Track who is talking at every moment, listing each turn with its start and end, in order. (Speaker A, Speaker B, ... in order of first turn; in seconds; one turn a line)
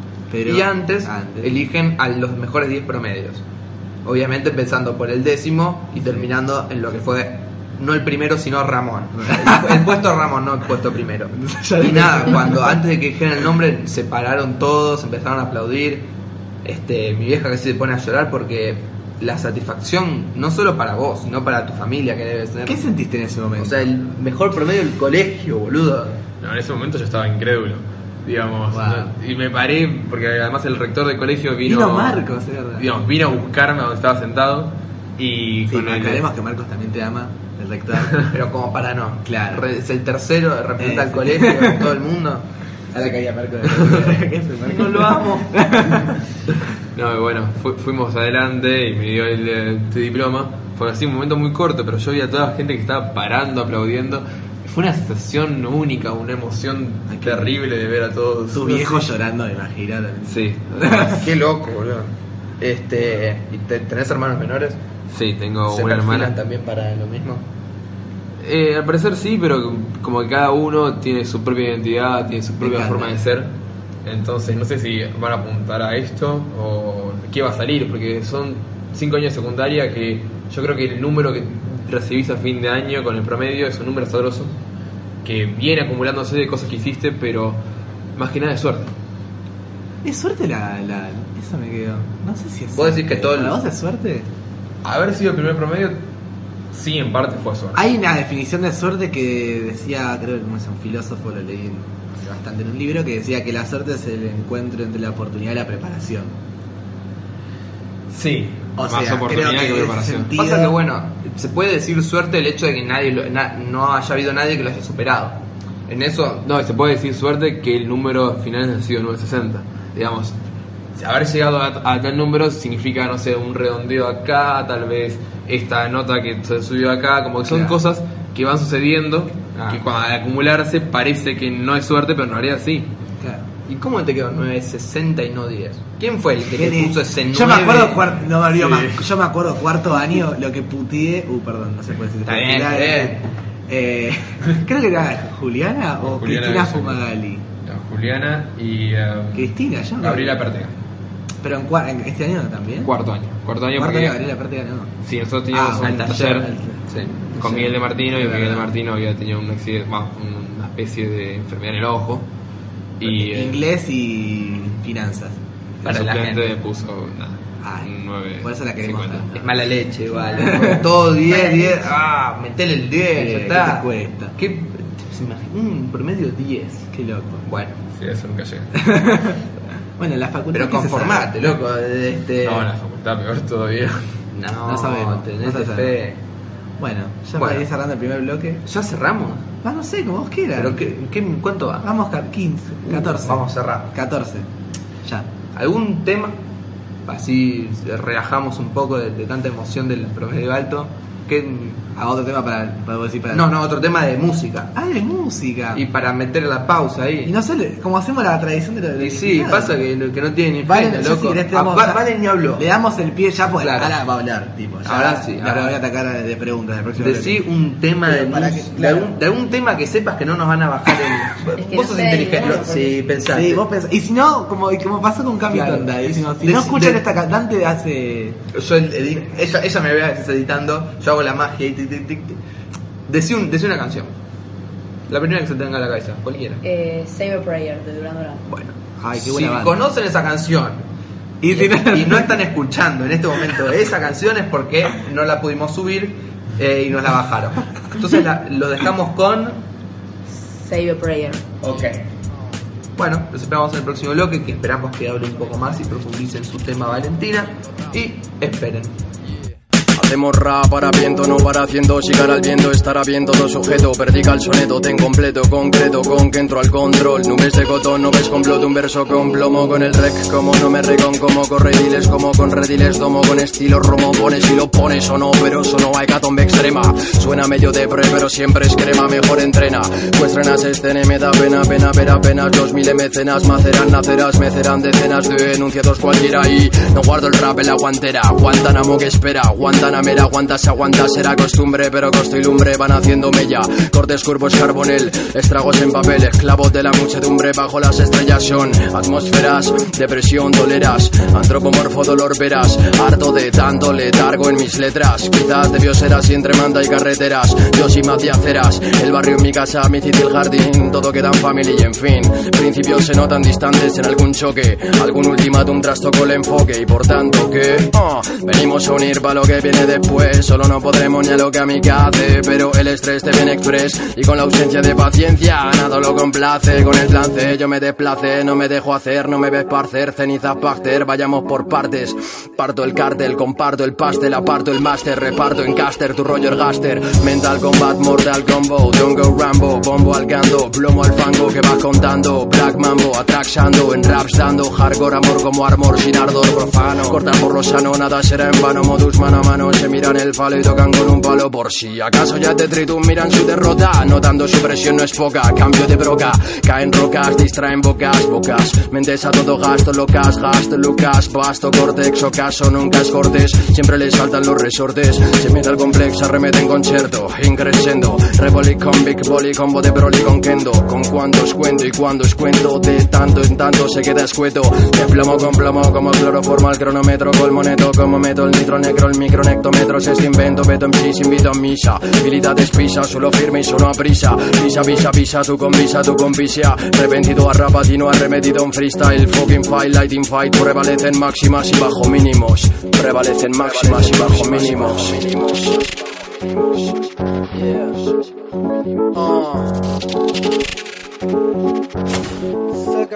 Speaker A: 0.3-1.6
Speaker B: 0.4-3.4
Speaker B: 4.0-16.1
Speaker A: 9.2-9.8
Speaker A: 11.3-12.8
Speaker B: 16.6-22.8
Speaker A: 22.6-23.9
Speaker B: 23.6-26.2
Speaker C: 26.4-32.2
Speaker A: 28.7-29.1
Speaker A: 31.6-32.9
Speaker C: 32.8-36.2
Speaker A: 35.7-38.3
Speaker B: 38.3-42.4
Speaker A: 39.2-39.6
Speaker A: 40.8-42.0
Speaker A: 42.9-46.2
Speaker B: 44.6-45.6
Speaker C: 46.9-59.1
Speaker A: 57.1-57.5
Speaker A: 58.5-61.2
Speaker C: 60.2-61.2
Speaker B: 61.2-64.8
Speaker C: 65.1-66.3
Speaker B: 65.7-67.5
Speaker C: 68.4-73.5
Speaker A: 72.6-73.1
Speaker C: 74.0-84.5
Speaker C: 85.2-87.6
Speaker C: 88.2-88.9
Speaker A: 90.0-94.3
Speaker B: 92.7-93.5
Speaker C: 94.8-96.0
Speaker C: 96.7-97.8
Speaker A: 97.7-106.3
Speaker C: 108.1-110.3
Speaker A: 108.8-110.8
Speaker B: 110.3-116.5
Speaker C: 116.4-120.3
Speaker C: 121.0-132.9
Speaker A: 127.5-127.8
Speaker B: 129.5-129.8
Speaker A: 133.2-133.4
Speaker B: 133.7-138.1
Speaker A: 136.5-147.4
Speaker C: 138.5-139.1
Speaker B: 142.2-143.2
Speaker C: 146.0-147.0
Speaker C: 147.6-150.7
Speaker A: 149.3-150.4
Speaker A: 151.4-152.9
Speaker C: 152.8-154.2
Speaker A: 153.7-154.9
Speaker C: 155.0-156.5
Speaker A: 155.5-156.8
Speaker B: 155.8-157.7
Speaker C: 157.3-162.3
Speaker A: 158.1-158.7
Speaker C: 163.0-163.6
Speaker A: 163.0-165.4
Speaker C: 165.8-169.3
Speaker B: 165.8-166.5
Speaker A: 167.6-169.6
Speaker B: 169.3-176.9
Speaker A: 170.2-170.9
Speaker D: 171.3-171.8
Speaker A: 173.1-174.3
Speaker A: 176.9-177.4
Speaker B: 177.4-177.8
Speaker C: 177.9-178.8
Speaker A: 178.7-179.4
Speaker A: 180.0-181.5
Speaker B: 180.5-182.7
Speaker C: 182.4-184.1
Speaker B: 184.3-186.2
Speaker A: 184.6-185.9
Speaker A: 186.8-188.6
Speaker B: 187.3-187.6
Speaker B: 188.6-189.5
Speaker A: 189.6-190.8
Speaker B: 190.5-191.9
Speaker A: 191.8-194.5
Speaker B: 192.9-193.9
Speaker A: 195.0-195.3
Speaker B: 195.5-196.4
Speaker B: 197.1-201.8
Speaker A: 201.9-203.5
Speaker B: 203.3-204.7
Speaker A: 204.7-205.8
Speaker B: 205.7-207.3
Speaker A: 207.2-209.8
Speaker B: 209.0-212.6
Speaker A: 210.6-217.4
Speaker B: 213.6-213.9
Speaker B: 214.8-215.8
Speaker B: 217.0-223.6
Speaker A: 218.0-219.2
Speaker D: 221.6-223.0
Speaker A: 223.2-228.4
Speaker B: 225.5-227.0
Speaker B: 228.5-232.4
Speaker B: 233.1-234.1
Speaker B: 235.1-236.6
Speaker D: 236.6-238.4
Speaker B: 238.5-240.8
Speaker A: 239.0-239.8
Speaker A: 241.4-242.4
Speaker B: 241.5-249.6
Speaker D: 250.4-251.4
Speaker B: 251.6-252.0
Speaker B: 252.9-258.9
Speaker E: 259.9-395.9
Speaker E: 399.1-399.7